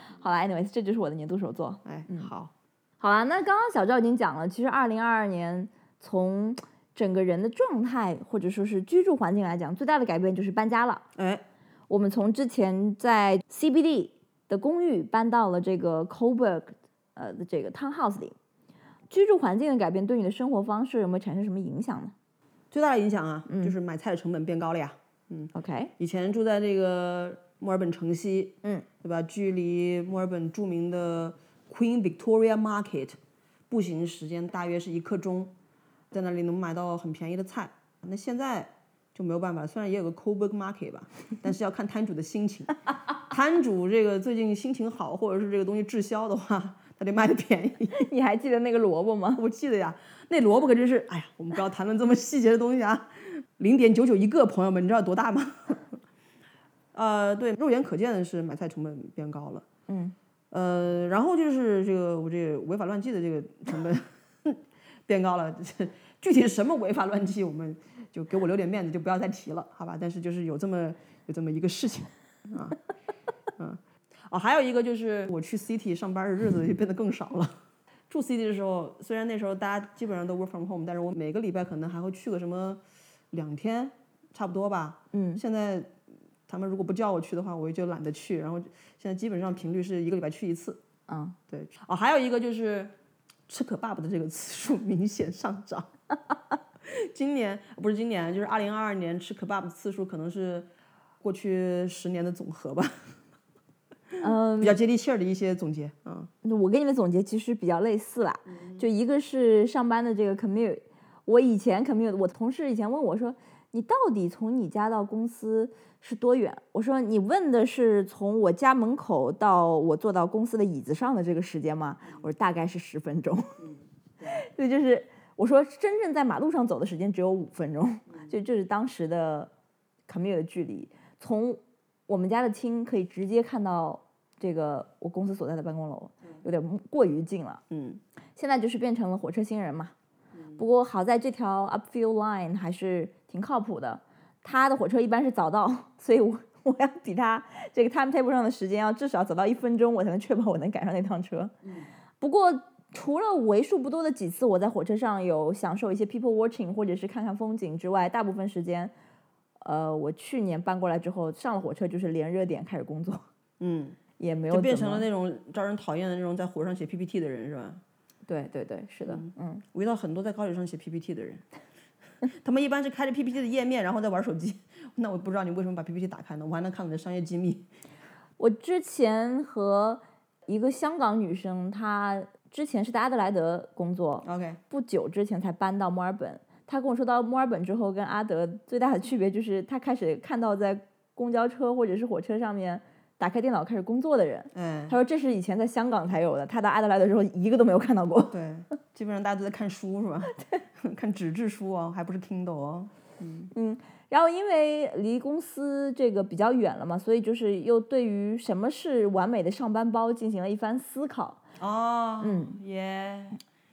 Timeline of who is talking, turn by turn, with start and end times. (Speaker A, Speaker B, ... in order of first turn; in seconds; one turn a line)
Speaker A: 0.2-2.3
Speaker B: 1.8-2.5
Speaker A: 3.0-11.1
Speaker B: 11.2-11.4
Speaker A: 11.9-18.3
Speaker A: 19.1-22.1
Speaker B: 22.7-33.2
Speaker A: 23.5-23.7
Speaker A: 25.5-25.9
Speaker B: 33.7-35.5
Speaker B: 36.1-48.0
Speaker A: 47.9-49.4
Speaker B: 49.4-55.9
Speaker B: 56.9-59.6
Speaker A: 59.9-60.1
Speaker B: 60.5-72.8
Speaker B: 73.6-77.5
Speaker B: 78.1-82.8
Speaker B: 83.3-85.9
Speaker A: 85.1-85.4
Speaker B: 86.5-90.8
Speaker A: 91.1-91.4
Speaker B: 91.5-92.9
Speaker B: 93.5-95.9
Speaker B: 96.8-100.7
Speaker B: 101.2-103.1
Speaker B: 104.1-106.3
Speaker A: 104.2-104.8
Speaker A: 106.4-123.6
Speaker B: 108.5-108.8
Speaker A: 124.2-129.5
Speaker A: 130.1-137.6
Speaker B: 137.7-138.0
Speaker A: 138.3-139.9
Speaker A: 140.6-151.5
Speaker A: 152.2-158.9
Speaker A: 159.6-163.2
Speaker B: 163.6-164.0
Speaker A: 164.2-165.1
Speaker B: 164.5-167.8
Speaker A: 168.2-169.6
Speaker B: 169.1-171.4
Speaker B: 172.4-177.7
Speaker A: 178.4-198.3
Speaker B: 184.2-184.6
Speaker B: 194.5-195.0
Speaker B: 198.3-203.5
Speaker A: 203.5-211.4
Speaker B: 211.6-213.4
Speaker A: 212.2-212.6